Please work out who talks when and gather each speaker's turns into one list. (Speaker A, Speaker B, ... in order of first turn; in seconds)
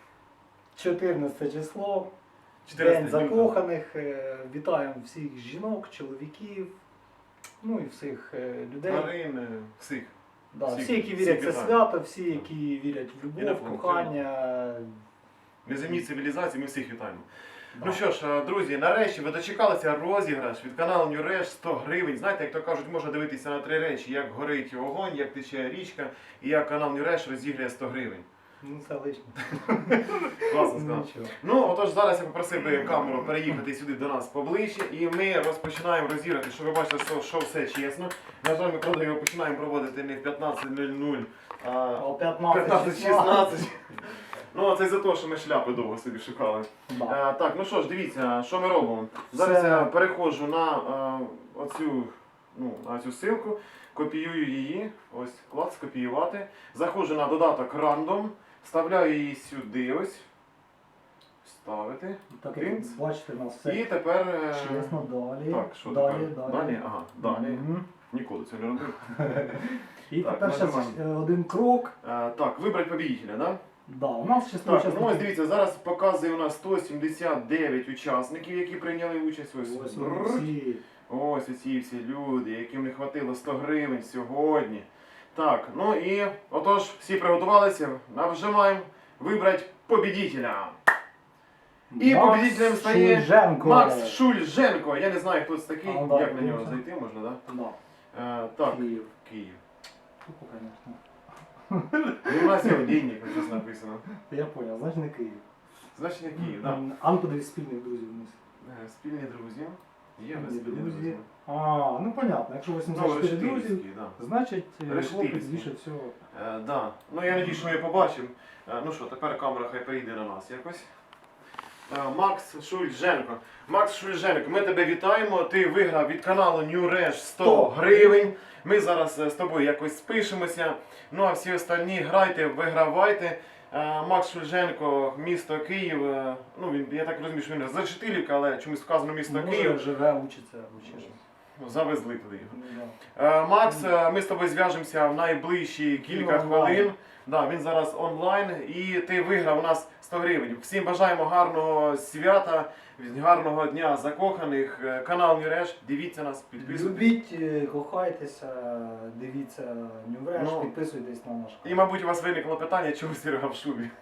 Speaker A: 0.8-2.1, 2.7-6.7, 7.6-9.1, 10.5-15.0, 17.7-18.0, 28.6-31.3, 42.0-43.6, 46.9-47.2, 49.3-49.9, 62.3-63.9, 64.5-67.9, 69.1-72.0, 73.9-75.3, 79.6-80.8, 91.9-94.2, 95.8-96.8, 97.5-97.8, 98.6-99.1, 100.2-101.0, 101.7-102.9, 104.1-105.4, 106.3-108.4, 110.3-116.2, 127.4-128.3, 139.3-141.2, 142.5-143.0, 146.0-146.9, 156.6-161.8
Speaker B: 2.6-3.5, 8.9-10.1, 10.7-11.8, 13.4-14.2, 15.7-28.2, 30.4-60.3, 61.4-63.0, 63.6-69.6, 70.2-71.0, 72.0-73.6, 74.6-80.5, 81.1-90.8, 92.0-97.4, 98.1-99.6, 102.2-104.1, 106.0-106.8, 108.6-111.3, 112.9-114.2, 114.9-115.7, 116.3-120.9, 121.9-139.8, 141.6-142.5, 143.2-157.0, 160.4-160.7, 161.6-163.9